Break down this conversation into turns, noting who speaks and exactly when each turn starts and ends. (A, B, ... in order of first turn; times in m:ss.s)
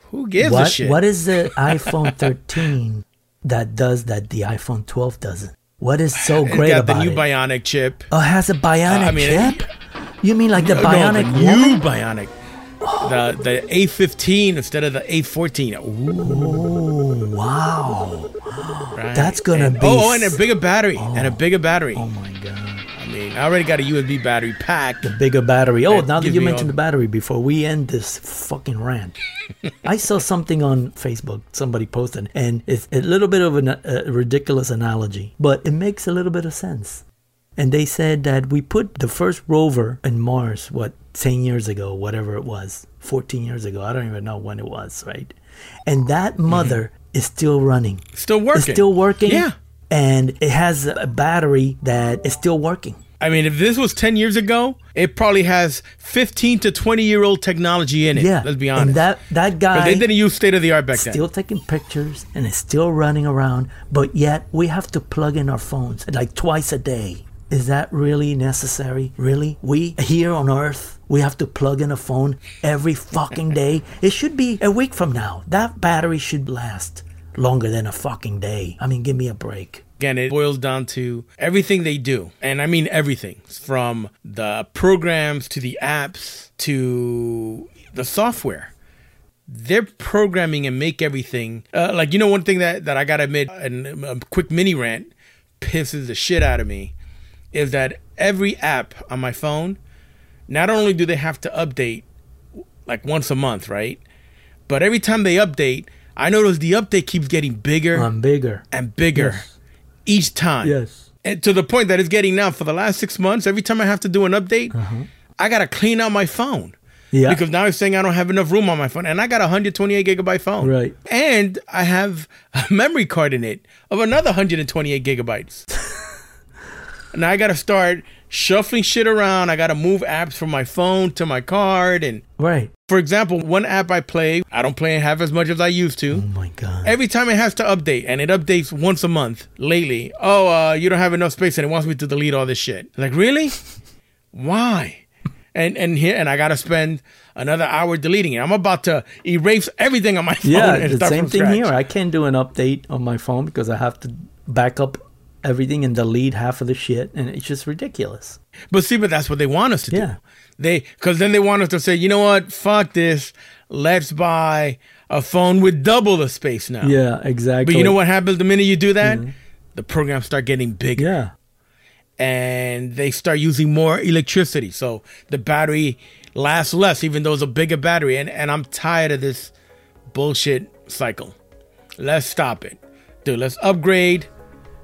0:00.1-0:02.2 A
0:00.4-0:07.3 B
0:06.2-0:08.1 A
0:08.1-0:09.7 B
0:08.9-0:09.7 A
0:10.2-0:11.8 B
0:10.6-0:12.3 A
0:12.8-0:13.2 B
0:13.0-0:16.7 A
0:16.2-0:20.4 B
0:19.0-0:22.1 A
0:21.0-0:21.4 B
0:21.9-0:22.9 B
0:23.0-0:25.1 A
0:25.0-0:29.2 B
0:25.9-0:26.8 A
0:29.8-0:37.0 B
0:37.6-0:45.4 B
0:45.9-0:53.0 B
0:46.5-0:46.8 A
0:48.2-0:49.6 A
0:53.2-0:59.1 A
0:58.1-1:00.1 B
0:59.7-1:01.3 A
1:00.9-1:19.8 B
1:20.0-1:28.7 A
1:29.5-1:37.0 A
1:37.5-1:39.8 A
1:40.5-1:42.0 A
1:42.9-1:44.0 A
1:44.7-1:48.1 A
1:47.9-1:48.6 B
1:48.7-1:49.5 A
1:49.2-1:49.6 B
1:50.1-1:54.8 A
1:50.6-1:51.1 B
1:54.7-1:55.1 B
1:55.4-2:05.7 A
1:57.1-1:57.4 B
2:00.6-2:01.0 B
2:07.1-2:12.2 A
2:12.4-2:12.7 B
2:12.9-2:16.2 A
2:16.1-2:17.0 B
2:16.8-2:23.6 A
2:24.3-2:31.8 A
2:30.4-2:38.4 B
2:38.7-2:47.0 A
2:39.9-2:40.2 B
2:46.8-2:48.0 B
2:47.6-2:49.2 A
2:49.0-2:49.3 B
2:49.8-2:51.1 A
2:51.0-2:51.3 B
2:52.2-2:59.5 A
3:00.1-3:01.4 A
3:02.0-3:04.3 A